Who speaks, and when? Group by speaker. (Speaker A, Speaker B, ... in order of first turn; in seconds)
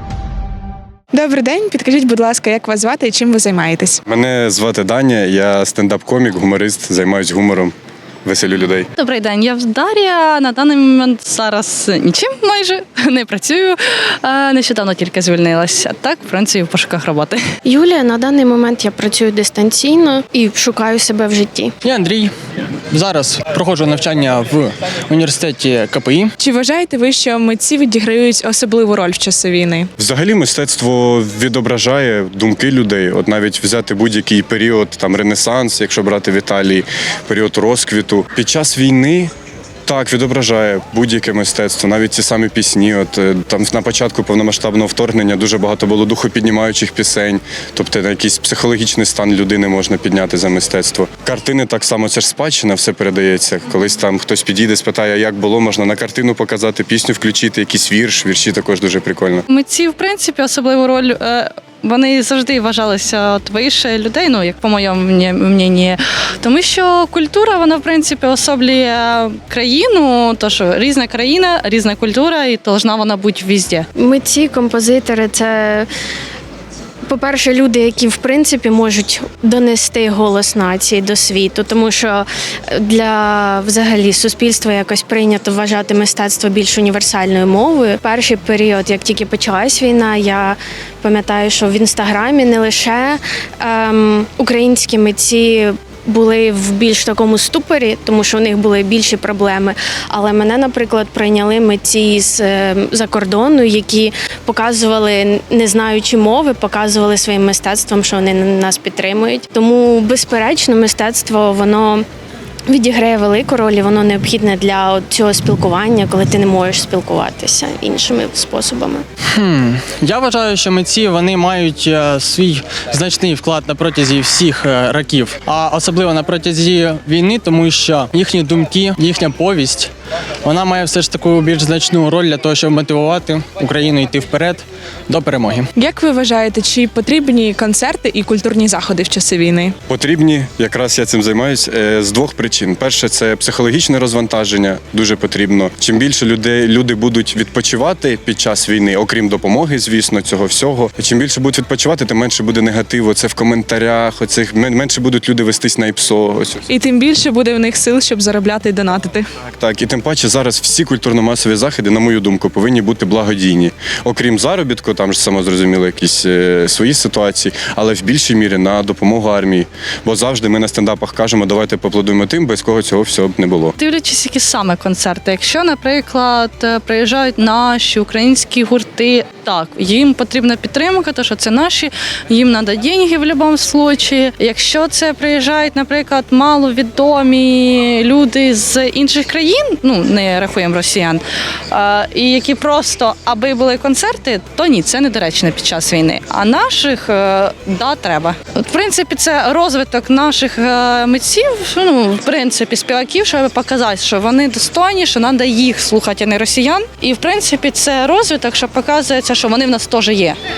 Speaker A: 1.1-4.0, 26.4-29.9, 135.8-139.8, 156.7-159.3
Speaker B: 4.1-7.7, 8.2-8.9, 30.0-39.3, 39.9-59.5, 139.9-156.7, 159.5-173.7
Speaker C: 9.0-17.4, 59.5-73.9, 173.8-210.4
Speaker D: 17.6-21.7, 74.0-75.9, 77.1-112.0, 112.7-119.0
Speaker E: 21.8-22.3, 22.9-26.3, 119.3-129.9, 130.4-135.7